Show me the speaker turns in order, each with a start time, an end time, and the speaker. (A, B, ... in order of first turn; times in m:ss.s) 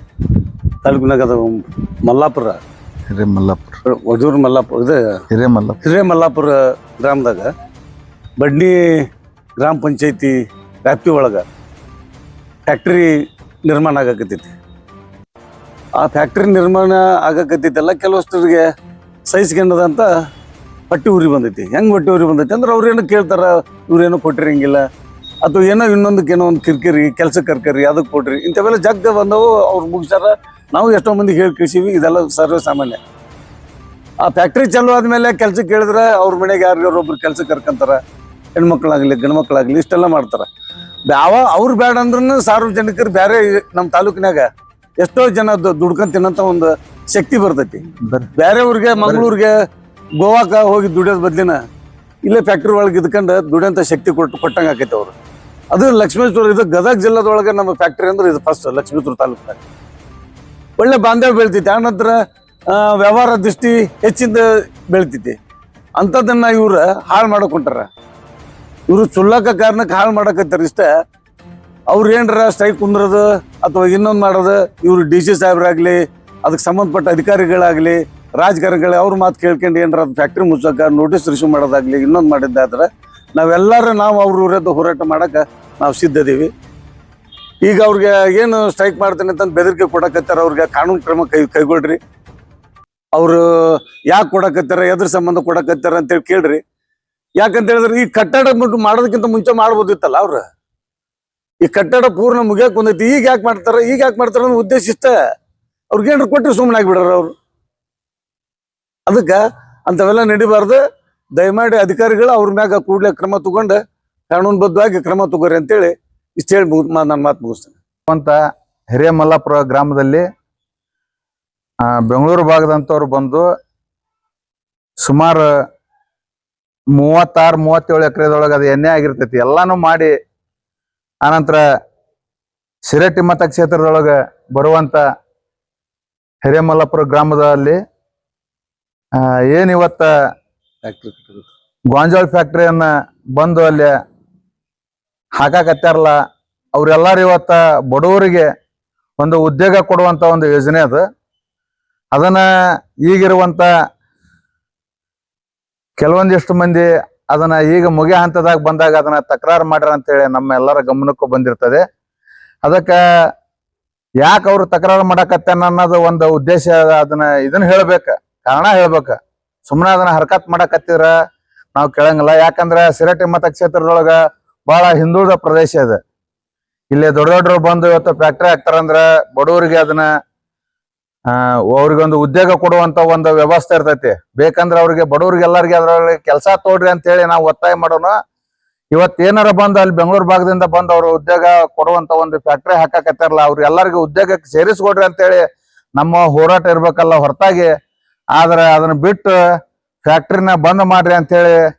0:00.8-0:02.6 A
0:03.1-0:03.8 B
0:03.9-0:05.0 A
0:05.3-0:05.8 B
0:05.8-0:07.5 A
0:08.4-0:08.9 A
0:09.6-0:11.4 A
0:12.7-0:13.1 A
0:13.6-0:14.5 A
0:16.0-0:18.6 A
0:19.3-0:20.1 A
0:20.9-0:24.8 A
0:25.4-0:33.0 A
0:34.2-0:38.0 A
0:38.5-0:40.4 A
0:41.1-0:44.4 A
0:45.0-0:47.8 A
0:48.3-0:49.5 A
0:49.0-0:49.3 B
0:50.2-0:51.6 A
0:52.2-0:55.1 A
0:55.7-0:59.6 A
1:00.8-1:02.1 A
1:02.7-1:05.3 A
1:06.0-1:07.9 A
1:08.9-1:10.9 A
1:11.9-1:26.5 A
1:27.6-1:32.0 A
1:33.1-1:36.6 A
1:37.4-1:40.4 A
1:41.6-1:45.1 A
1:45.9-1:47.3 A
1:49.1-1:50.8 A
1:51.4-1:53.8 A
1:54.3-1:57.8 A
1:58.1-1:58.4 B
1:58.9-2:00.2 B
2:01.9-2:03.4 B
2:05.0-2:05.5 B
2:06.9-2:10.1 B
2:11.2-2:11.6 B
2:12.8-2:15.0 B
2:16.4-2:17.8 B
2:19.2-2:20.1 B
2:20.8-2:21.5 A
2:21.9-2:23.9 B
2:25.4-2:26.2 B
2:26.7-2:28.5 B
2:29.2-2:31.0 B
2:32.1-2:32.4 B
2:33.0-2:33.7 B
2:36.0-2:41.8 B
2:42.6-2:43.0 B
2:44.2-2:49.1 B
2:49.7-2:51.1 B
2:51.7-2:54.2 B
2:54.7-2:56.0 B
2:56.9-3:00.0 B
3:01.3-3:08.1 B
3:08.9-3:15.4 B
3:16.0-3:17.7 B
3:18.4-3:19.3 B
3:20.0-3:21.6 B